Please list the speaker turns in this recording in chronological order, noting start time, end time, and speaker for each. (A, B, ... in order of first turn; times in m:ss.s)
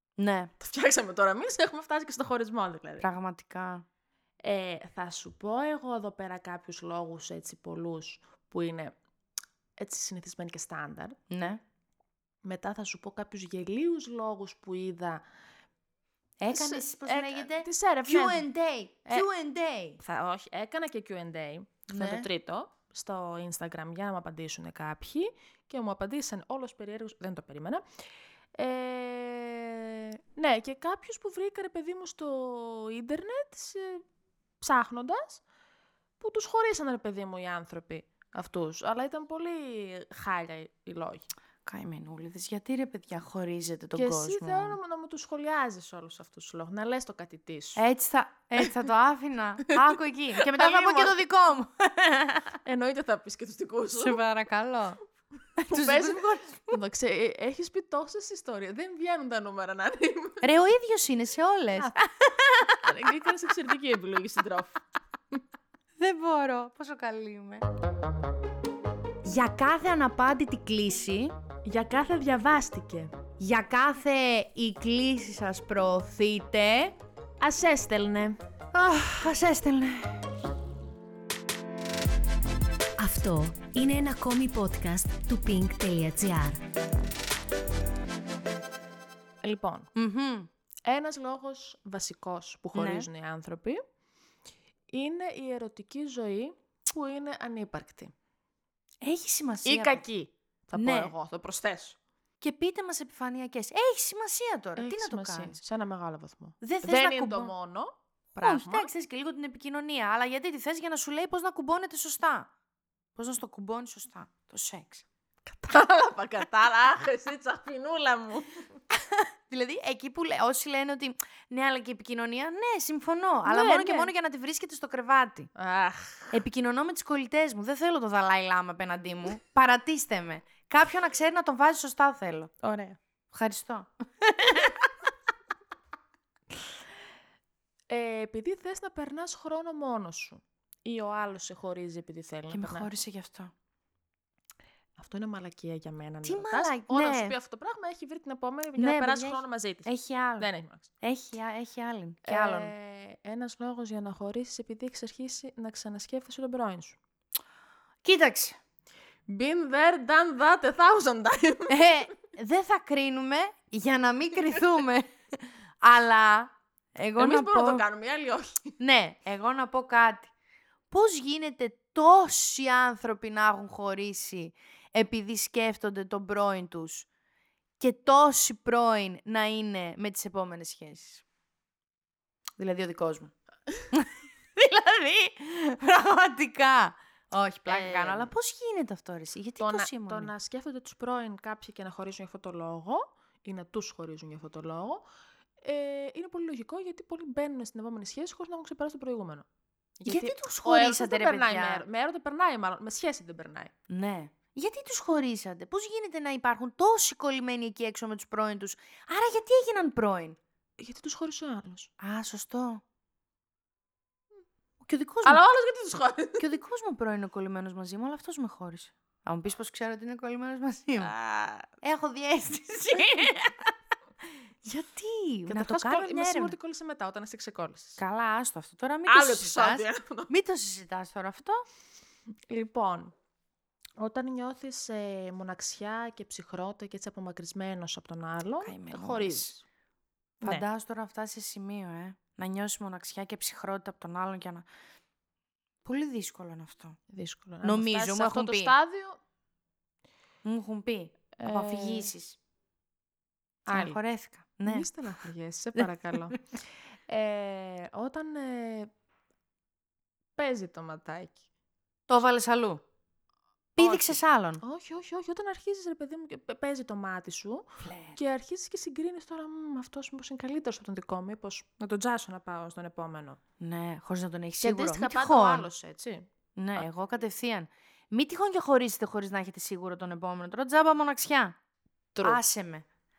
0:00.2-0:00.5 A
0:00.6-0:03.0 B
0:03.0-0:03.8 A
0:04.4-0:09.0 B
0:09.8-0:11.2 B
0:11.3-0:11.6 A
0:12.4-0:15.2 B
0:16.4-0:20.0 A
0:16.5-0:18.5 B
0:20.0-0:27.8 B
0:21.9-0:22.3 A
0:28.6-0:34.0 B
0:34.6-0:35.4 B
0:36.2-0:41.3 B
0:41.6-0:44.8 A
0:44.0-0:47.8 B
0:47.8-0:52.6 A
0:50.4-0:51.1 B
0:52.6-0:54.2 B
0:54.0-0:55.0 A
0:55.6-0:56.8 A
0:55.7-1:00.4 B
1:00.4-1:02.9 A
1:02.8-1:04.8 B
1:06.0-1:07.7 A
1:09.2-1:11.4 A
1:11.6-1:13.1 B
1:13.4-1:17.0 A
1:17.4-1:18.4 B
1:18.7-1:20.2 A
1:23.0-1:26.6 C
1:29.4-1:29.9 B
1:30.0-1:30.5 A
1:30.8-1:33.8 B
1:32.7-1:33.1 A
1:34.9-1:38.1 B
1:39.0-1:40.0 A
1:39.6-1:42.0 B
1:40.8-1:41.1 A
1:42.4-1:45.6 A
1:44.8-1:48.9 B
1:46.6-1:47.5 A
1:48.4-1:52.5 A
1:53.2-1:55.0 A
1:55.4-1:58.7 B
1:58.9-2:05.5 A
2:03.4-2:04.1 B
2:05.6-2:06.4 B
2:06.3-2:12.7 A
2:12.7-2:13.0 B
2:13.3-2:14.9 A
2:17.9-2:22.9 B
2:22.5-2:23.5 A
2:25.0-2:30.9 B
2:26.2-2:27.4 A
2:28.8-2:30.5 A
2:31.0-2:32.7 A
2:32.2-2:37.0 B
2:38.0-2:38.6 A
2:39.3-2:42.0 B
2:41.7-2:47.8 A
2:47.2-2:48.7 B
2:48.8-2:50.3 A
2:50.9-2:57.1 A
2:57.8-3:01.2 A
3:02.6-3:03.3 A
3:03.9-3:10.3 A
3:07.7-3:08.3 B
3:09.6-3:15.0 B
3:15.6-3:19.5 B
3:20.0-3:23.7 B
3:20.1-3:21.8 A
3:23.9-3:30.4 A
3:30.8-3:31.9 B
3:32.0-3:32.8 A
3:34.8-3:35.4 A
3:35.2-3:36.5 B
3:36.4-3:41.1 A
3:41.0-3:41.7 B
3:41.8-3:43.7 A
3:44.6-3:46.6 A
3:45.5-3:48.0 B
3:48.0-3:51.6 A
3:49.1-3:50.3 B
3:52.5-3:53.1 B
3:54.0-3:59.6 B
3:58.6-3:59.6 A
4:00.4-4:04.7 A
4:05.8-4:07.0 A
4:07.1-4:09.2 B
4:07.6-4:08.7 A
4:10.4-4:12.4 A
4:11.4-4:12.1 B
4:13.7-4:14.0 B
4:13.7-4:14.9 A
4:14.7-4:16.4 B
4:17.1-4:18.9 B
4:20.4-4:21.4 B
4:22.1-4:22.8 A
4:23.8-4:24.6 A
4:23.8-4:33.4 B
4:27.8-4:28.2 A
4:33.6-4:35.7 A
4:34.6-4:36.8 B
4:36.6-4:41.6 A
4:42.2-4:42.4 B
4:42.2-4:42.9 A